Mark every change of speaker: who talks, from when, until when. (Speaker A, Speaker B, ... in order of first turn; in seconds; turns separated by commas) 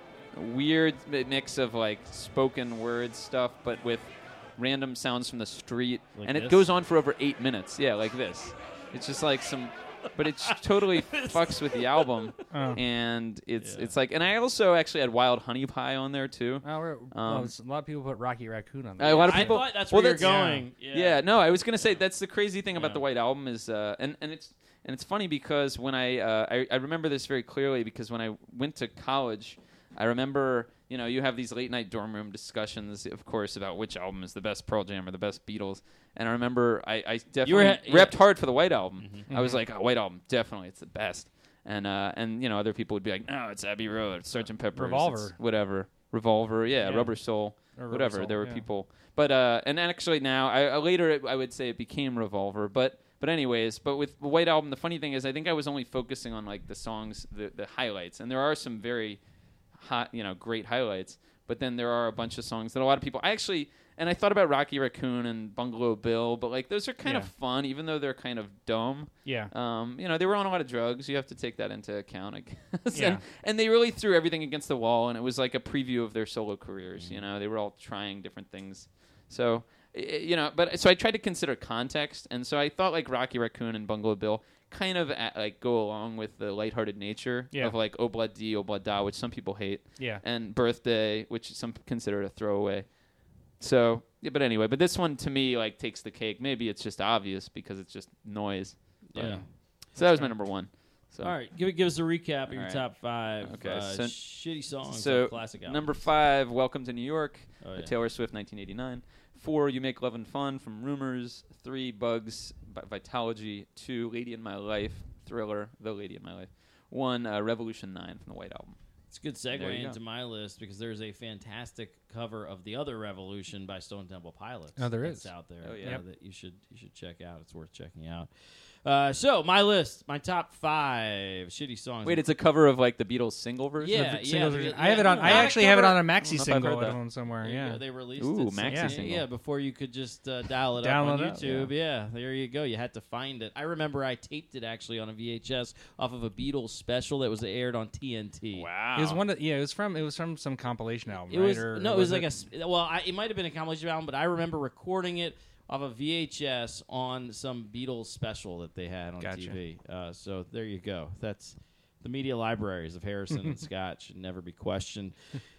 Speaker A: 0.3-17.5, Speaker B: 6.2-6.7, Speaker B: 10.2-12.3, Speaker C: 12.5-12.8, Speaker B: 13.6-13.9, Speaker C: 16.6-19.6, Speaker A: 19.0-59.2, Speaker B: 19.2-21.2, Speaker C: 20.2-20.6, Speaker B: 22.8-23.0, Speaker B: 37.4-38.2, Speaker B: 39.0-39.3, Speaker C: 39.3-39.6, Speaker C: 44.7-45.3, Speaker C: 46.8-48.6, Speaker A: 59.7-92.9, Speaker C: 67.0-67.3, Speaker C: 69.2-69.5, Speaker C: 72.9-73.2, Speaker A: 93.6-101.3, Speaker B: 99.1-99.4, Speaker B: 101.2-106.0, Speaker A: 102.5-102.8, Speaker A: 103.4-104.2, Speaker A: 104.8-118.8, Speaker B: 107.6-107.9, Speaker B: 119.1-128.3, Speaker A: 119.5-120.0, Speaker C: 124.8-125.3, Speaker A: 125.6-126.0, Speaker B: 128.8-132.2, Speaker A: 132.0-134.1, Speaker B: 133.8-136.0, Speaker C: 133.9-137.8, Speaker A: 135.2-135.6, Speaker A: 136.2-137.0, Speaker B: 137.4-148.7, Speaker A: 138.2-139.3, Speaker C: 138.7-138.9, Speaker C: 140.8-141.7, Speaker A: 148.5-149.2, Speaker C: 148.9-152.3, Speaker B: 151.3-165.2, Speaker C: 159.2-159.5